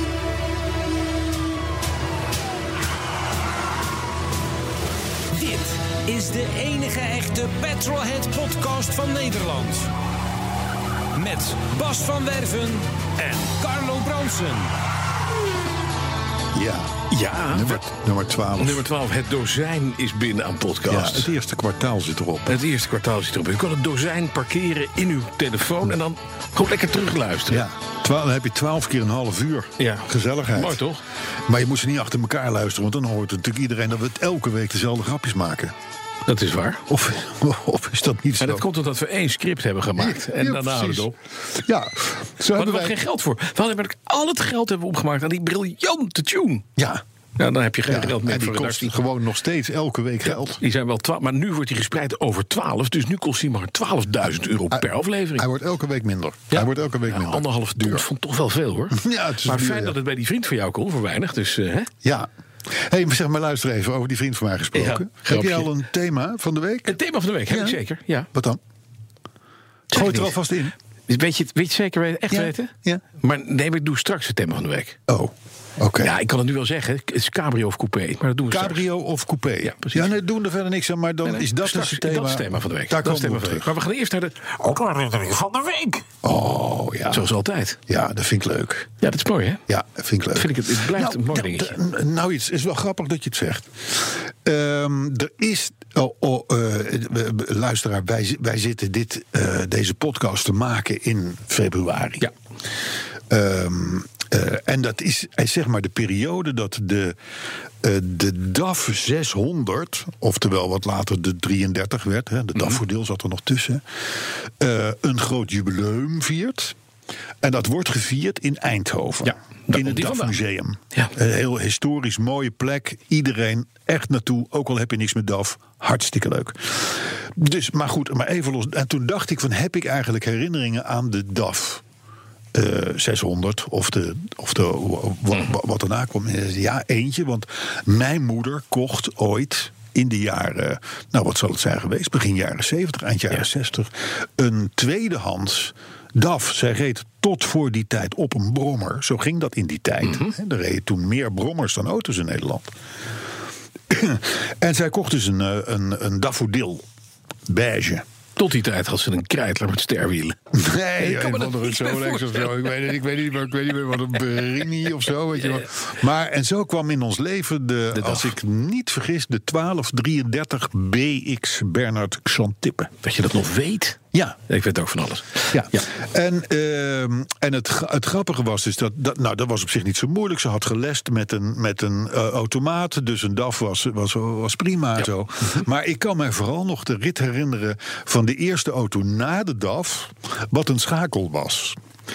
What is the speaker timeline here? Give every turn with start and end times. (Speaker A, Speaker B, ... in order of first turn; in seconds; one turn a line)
Speaker A: 5.3-9.9
Speaker A: 11.1-14.7
Speaker B: 16.5-18.8
Speaker C: 17.1-17.8
Speaker C: 18.6-21.3
Speaker B: 20.9-22.6
Speaker C: 22.5-27.6
Speaker B: 27.5-30.8
Speaker C: 29.8-31.0
Speaker B: 31.5-35.7
Speaker C: 36.2-36.8
Speaker B: 36.9-38.6
Speaker C: 38.4-41.1
Speaker B: 40.0-43.0
Speaker C: 42.5-46.6
Speaker B: 46.8-47.0
Speaker C: 47.4-48.9
Speaker B: 47.9-50.6
Speaker C: 50.3-55.5
Speaker B: 54.7-58.0
Speaker C: 56.5-61.9
Speaker B: 58.9-60.0
Speaker B: 62.0-66.9
Speaker C: 64.7-65.7
Speaker C: 66.8-68.3
Speaker B: 67.5-67.8
Speaker B: 68.3-68.6
Speaker B: 69.9-70.7
Speaker C: 69.9-70.3
Speaker C: 71.1-75.0
Speaker B: 72.3-73.0
Speaker B: 75.1-76.1
Speaker C: 76.0-78.9
Speaker B: 78.5-83.7
Speaker C: 79.6-80.1
Speaker C: 81.2-86.0
Speaker B: 86.2-87.3
Speaker C: 87.1-87.8
Speaker B: 87.9-89.0
Speaker C: 89.0-89.6
Speaker B: 89.7-102.3
Speaker C: 90.3-91.7
Speaker B: 103.3-107.2
Speaker B: 107.8-116.8
Speaker B: 117.4-131.8
Speaker C: 119.2-120.3
Speaker B: 132.5-152.7
Speaker B: 153.9-156.8
Speaker B: 157.5-158.0
Speaker C: 158.4-160.3
Speaker B: 160.5-172.9
Speaker C: 161.0-162.7
Speaker C: 167.9-168.3
Speaker C: 173.0-175.8
Speaker B: 174.1-174.4
Speaker B: 175.5-191.8